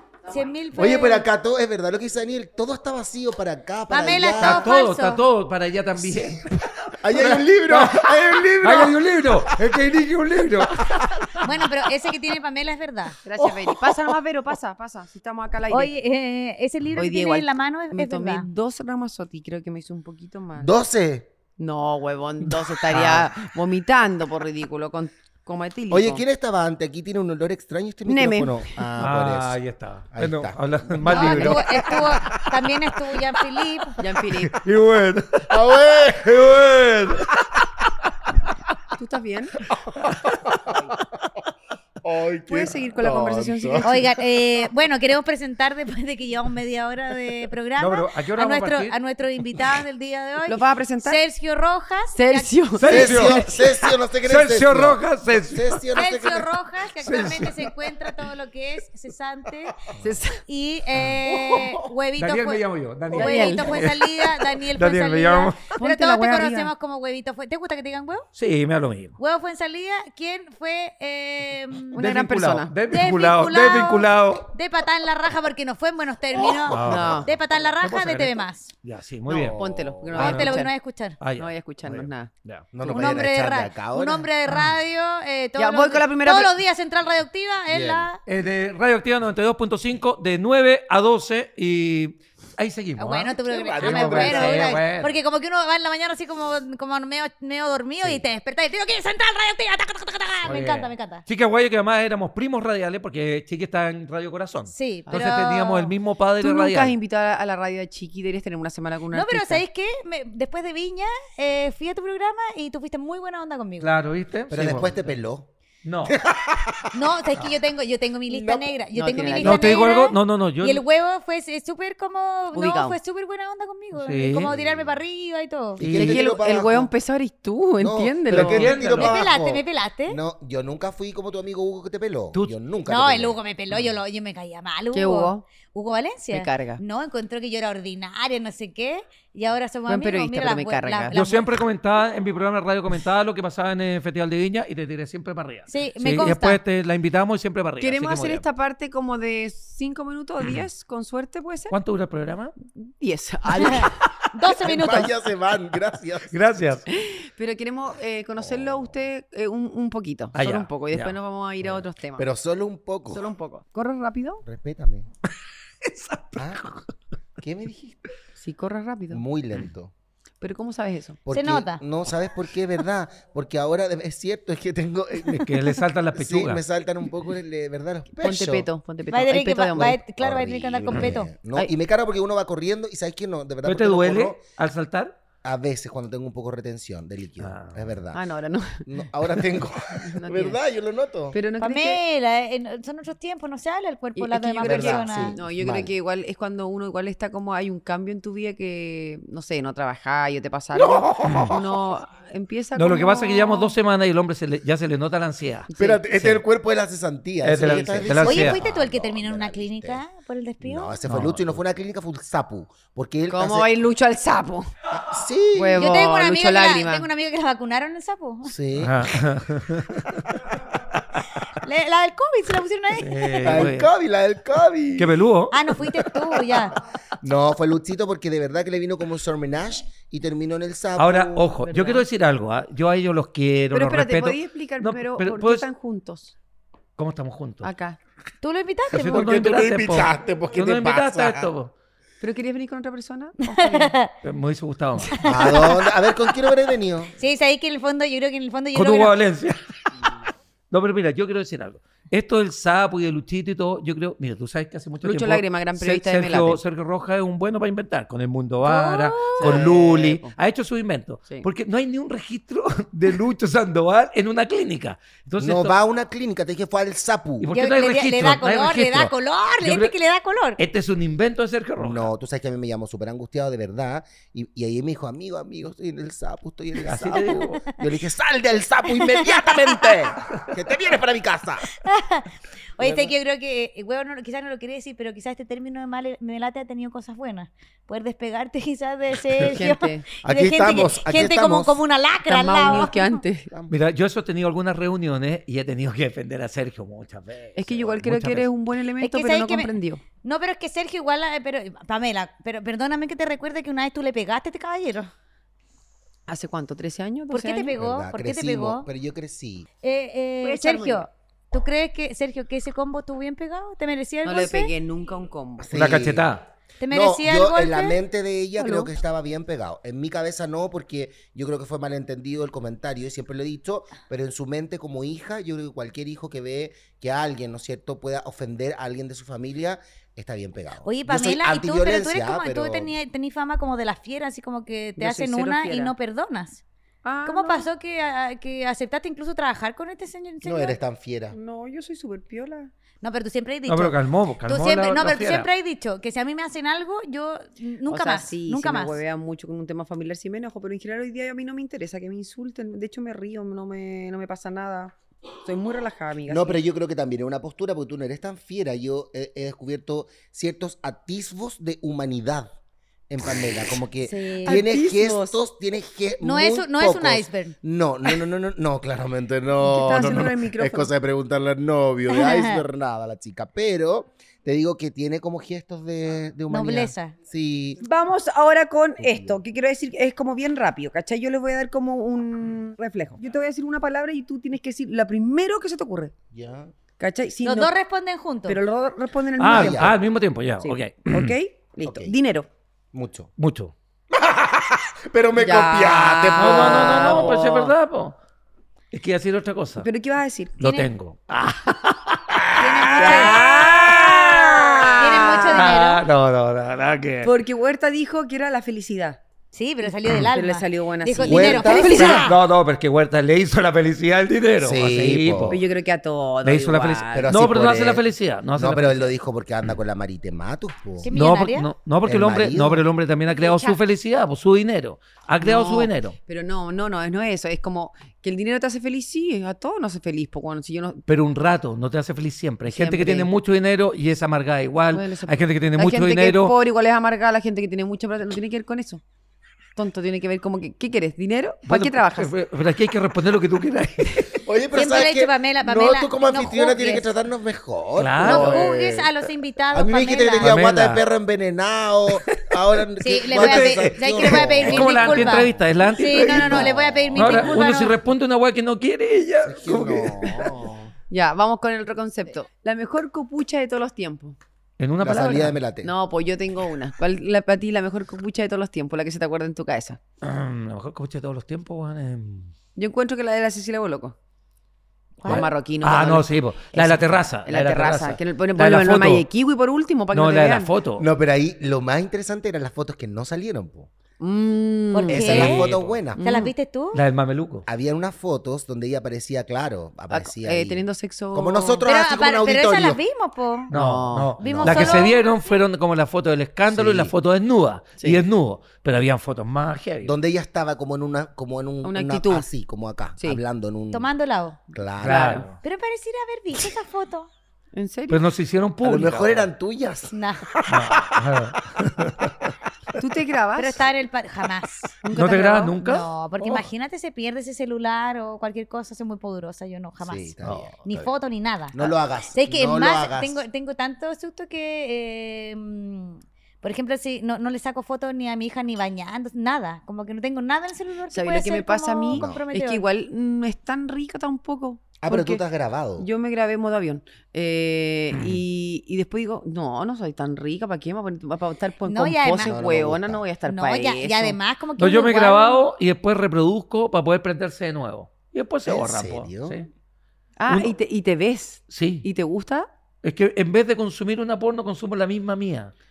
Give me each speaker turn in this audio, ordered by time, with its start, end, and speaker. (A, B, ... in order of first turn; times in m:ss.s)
0:00.3-0:01.2 A
0:00.7-0:04.7 B
0:03.9-0:05.2 A
0:04.4-0:11.4 C
0:06.0-0:09.7 B
0:10.6-0:11.4 B
0:11.4-0:13.2 A
0:13.2-0:15.9 D
0:15.7-0:18.5 A
0:16.9-0:20.7 D
0:20.6-0:21.3 B
0:21.6-0:26.2 D
0:22.9-0:23.2 C
0:25.9-0:29.6 B
0:28.1-0:28.8 D
0:29.0-0:32.4 C
0:30.1-0:30.6 B
0:31.0-0:34.0 A
0:31.0-0:31.9 D
0:34.0-0:34.6 D
0:34.2-0:37.7 C
0:35.5-0:36.7 B
0:39.0-0:39.6 D
0:39.7-0:40.9 B
0:40.2-0:40.5 C
0:40.7-0:40.9 D
0:42.0-0:43.9 B
0:42.5-0:44.0 D
0:43.8-0:53.2 A
0:47.8-0:49.7 C
0:50.5-0:51.2 D
0:52.1-0:53.5 D
0:52.8-0:53.6 C
0:52.9-0:56.5 B
0:54.2-0:55.8 C
0:55.9-0:59.8 A
0:57.0-0:58.2 C
1:00.0-1:00.4 D
1:00.5-1:08.3 A
1:01.3-1:01.9 B
1:02.2-1:05.7 C
1:03.1-1:03.9 D
1:05.8-1:06.7 D
1:08.4-1:09.2 C
1:09.2-1:12.0 A
1:11.9-1:12.7 D
1:11.9-1:14.5 C
1:12.9-1:18.7 A
1:16.7-1:19.6 C
1:16.7-1:17.3 D
1:19.3-1:20.4 B
1:19.5-1:20.7 D
1:20.1-1:20.6 C
1:20.1-1:21.2 A
1:21.2-1:22.7 C
1:21.4-1:22.3 D
1:22.7-1:24.3 B
1:22.8-1:28.2 A
1:24.5-1:24.8 C
1:25.6-1:26.5 D
1:27.7-1:28.1 B
1:28.2-1:35.1 C
1:33.0-1:41.2 A
1:33.4-1:34.8 B
1:40.4-1:46.9 C
1:44.7-1:45.9 A
1:45.1-1:45.6 D
1:46.4-1:49.6 D
1:49.1-1:53.9 A
1:53.8-1:55.1 C
1:54.5-1:55.5 B
1:55.8-1:56.2 C
1:56.0-1:56.9 B
1:56.9-2:05.8 A
1:58.3-1:58.7 B
1:58.9-1:59.8 D
1:59.4-2:00.8 C
2:02.5-2:03.0 D
2:03.9-2:04.5 C
2:04.4-2:05.0 B
2:05.8-2:06.9 B
2:05.8-2:06.2 C
2:05.9-2:08.8 D
2:07.8-2:13.4 B
2:08.3-2:09.2 C
2:08.9-2:10.2 A
2:12.9-2:21.5 A
2:14.9-2:15.4 D
2:16.3-2:16.8 D
2:19.9-2:21.1 D
2:21.1-2:28.4 C
2:25.7-2:26.6 A
2:27.8-2:31.8 D
2:31.7-2:32.5 C
2:32.8-2:33.9 D
2:33.4-2:33.9 B
2:33.6-2:35.2 A
2:34.4-2:36.3 B
2:36.3-2:36.9 C
2:36.9-2:42.3 D
2:38.4-2:39.0 B
2:40.3-2:41.8 C
2:42.2-2:43.2 B
2:43.1-2:44.4 D
2:44.4-2:45.1 B
2:45.8-2:46.9 C
2:46.4-2:46.6 B
2:47.4-2:48.0 B
2:48.4-2:49.2 D
2:49.1-2:49.9 B
2:50.4-2:51.2 D
2:51.2-2:55.5 B
2:51.3-2:51.8 A
2:55.4-2:56.6 C
2:56.1-2:58.7 B
2:58.2-3:00.0 D
2:59.1-3:01.3 A
2:59.8-3:04.4 B
3:03.6-3:05.1 C
3:05.4-3:08.2 B
3:07.4-3:07.8 C
3:08.1-3:08.8 D
3:08.8-3:11.4 B
3:09.9-3:10.6 D
3:11.3-3:12.0 D
3:11.6-3:15.4 A
3:14.2-3:23.7 D
3:14.6-3:15.9 B
3:20.8-3:21.8 B
3:21.3-3:21.5 C
3:22.8-3:26.4 C
3:25.7-3:26.0 D
3:25.8-3:30.0 B
3:27.4-3:28.6 C
3:27.6-3:28.2 D
3:28.2-3:30.9 A
3:30.6-3:33.7 B
3:31.1-3:31.6 C
3:33.3-3:34.7 D
3:34.9-3:35.9 B
3:35.5-3:37.1 D
3:35.8-3:38.5 A
3:38.4-3:39.2 B
3:38.8-3:40.3 C
3:39.9-3:40.2 B
3:41.6-3:43.7 A
3:43.0-3:43.9 C
3:43.4-3:45.1 B
3:45.0-3:45.8 C
3:45.5-3:46.8 A
3:47.2-3:51.5 B
3:51.0-3:55.7 C
3:51.6-3:52.0 D
3:53.7-3:56.3 D
3:57.0-3:57.7 C
3:57.6-3:58.0 D
3:58.4-3:59.3 A
3:58.9-4:01.5 B
3:58.9-4:01.7 C
4:02.2-4:03.9 D
4:03.5-4:04.1 A
4:04.2-4:05.2 C
4:05.1-4:05.9 A
4:05.2-4:07.1 B
4:07.2-4:09.1 A
4:08.7-4:09.6 C
4:10.7-4:25.8 C
4:15.0-4:16.6 D
4:18.6-4:19.6 A
4:19.4-4:20.3 D
4:25.4-4:27.5 B
4:27.4-4:29.9 C
4:27.5-4:30.6 A
4:30.6-4:32.1 C
4:31.8-4:41.7 B
4:36.8-4:37.6 C
4:39.0-4:39.7 A
4:41.8-4:53.2 A
4:42.8-4:43.1 B
4:49.4-4:50.0 D
4:50.2-4:51.8 B
4:52.3-4:53.5 D
4:52.6-4:52.9 B
4:53.7-4:58.5 C
4:57.6-5:00.0 D
4:59.0-4:59.7 A
5:00.2-5:05.1 A
5:06.3-5:07.8 D
5:07.3-5:08.9 A
5:07.8-5:09.7 B
5:09.8-5:14.7 A
5:10.4-5:11.1 D
5:14.2-5:16.0 D
5:15.6-5:16.3 B
5:15.7-5:16.4 C
5:16.8-5:18.0 A
5:16.9-5:32.9 B
5:18.6-5:18.9 D
5:30.8-5:36.6 A
5:35.0-5:35.9 D
5:37.0-5:37.7 D
5:37.2-5:40.8 A
5:40.4-5:41.4 B
5:41.3-5:42.7 D
5:43.0-5:49.0 A
5:43.7-5:45.5 C
5:47.9-5:56.6 D
5:56.3-6:02.5 B
6:03.1-6:17.8 B
6:04.0-6:04.6 A
6:04.4-6:05.4 D
6:06.2-6:07.6 A
6:09.6-6:10.9 D
6:12.1-6:12.6 A
6:16.5-6:17.1 A
6:17.8-6:26.1 D
6:19.0-6:19.4 B
6:26.3-6:26.7 B
6:27.0-6:27.7 D
6:27.4-6:28.6 A
6:28.5-6:29.9 D
6:29.4-6:31.3 C
6:29.5-6:30.0 B
6:30.6-6:32.5 D
6:31.8-6:32.1 B
6:32.9-6:33.3 B
6:33.4-6:33.7 C
6:34.1-6:37.4 B
6:35.3-6:37.7 D
6:36.4-6:38.2 C
6:38.9-6:39.9 C
6:39.8-6:40.6 D
6:40.6-6:47.3 C
6:40.6-6:40.9 A
6:42.6-6:43.4 A
6:43.0-6:45.7 D
6:45.0-6:46.0 A
6:47.2-6:49.2 D
6:49.5-6:52.4 A
6:50.1-6:52.2 D
6:51.2-6:52.2 B
6:51.8-6:55.6 C
6:54.6-6:55.6 B
6:55.5-6:57.5 D
6:56.4-6:59.1 C
6:57.2-7:01.1 B
7:01.0-7:01.7 A
7:01.1-7:06.2 C
7:02.0-7:02.8 B
7:03.3-7:03.8 D
7:05.4-7:11.0 D
7:11.1-7:16.6 C
7:12.7-7:13.3 D
7:14.9-7:19.0 D
7:19.7-7:22.3 D
7:21.7-7:24.4 C
7:24.4-7:29.1 B
7:24.7-7:27.0 A
7:28.0-7:28.7 C
7:28.2-7:30.5 A
7:29.7-7:37.7 B
7:30.4-7:31.0 C
7:32.3-7:32.6 C
7:33.0-7:37.9 A
7:33.3-7:40.5 C
7:39.4-7:40.9 B
7:41.1-7:44.4 D
7:44.8-7:45.6 C
7:45.0-7:45.9 B
7:45.8-7:50.0 D
7:50.2-7:52.5 C
7:52.8-7:54.2 D
7:55.2-7:55.4 A
7:55.2-7:59.2 C
7:55.2-8:00.7 D
8:00.1-8:01.1 C
8:01.0-8:03.9 B
8:04.2-8:06.5 D
8:04.9-8:07.0 A
8:05.1-8:06.2 B
8:05.2-8:06.0 C
8:06.9-8:07.7 C
8:07.7-8:13.0 B
8:10.1-8:11.8 D
8:11.8-8:13.7 A
8:13.7-8:14.3 D
8:13.7-8:20.1 C
8:14.4-8:15.1 B
8:14.4-8:15.5 A
8:16.7-8:17.1 B
8:20.0-8:24.1 B
8:21.8-8:22.4 D
8:23.9-8:24.6 A
8:24.7-8:25.4 B
8:25.0-8:25.4 D
8:25.0-8:25.6 C
8:25.6-8:27.3 A
8:27.7-8:28.2 D
8:28.1-8:29.5 C
8:28.8-8:31.2 B
8:30.1-8:30.4 A
8:30.7-8:32.5 C
8:33.0-8:33.8 D
8:33.6-8:35.0 A
8:35.0-8:35.8 D
8:35.1-8:36.6 C
8:35.8-8:52.8 A
8:40.0-8:41.1 B
8:40.4-8:40.7 C
8:41.7-8:43.4 B
8:51.1-8:55.4 D
8:52.1-8:52.4 B
8:55.0-8:56.1 B
8:56.0-9:04.4 D
8:58.1-8:58.4 C
9:01.9-9:02.6 A
9:02.4-9:03.2 B
9:03.4-9:05.6 A
9:04.8-9:09.7 C
9:08.6-9:09.6 B
9:10.4-9:12.7 D
9:10.5-9:10.7 C
9:11.7-9:12.1 C
9:13.0-9:15.7 C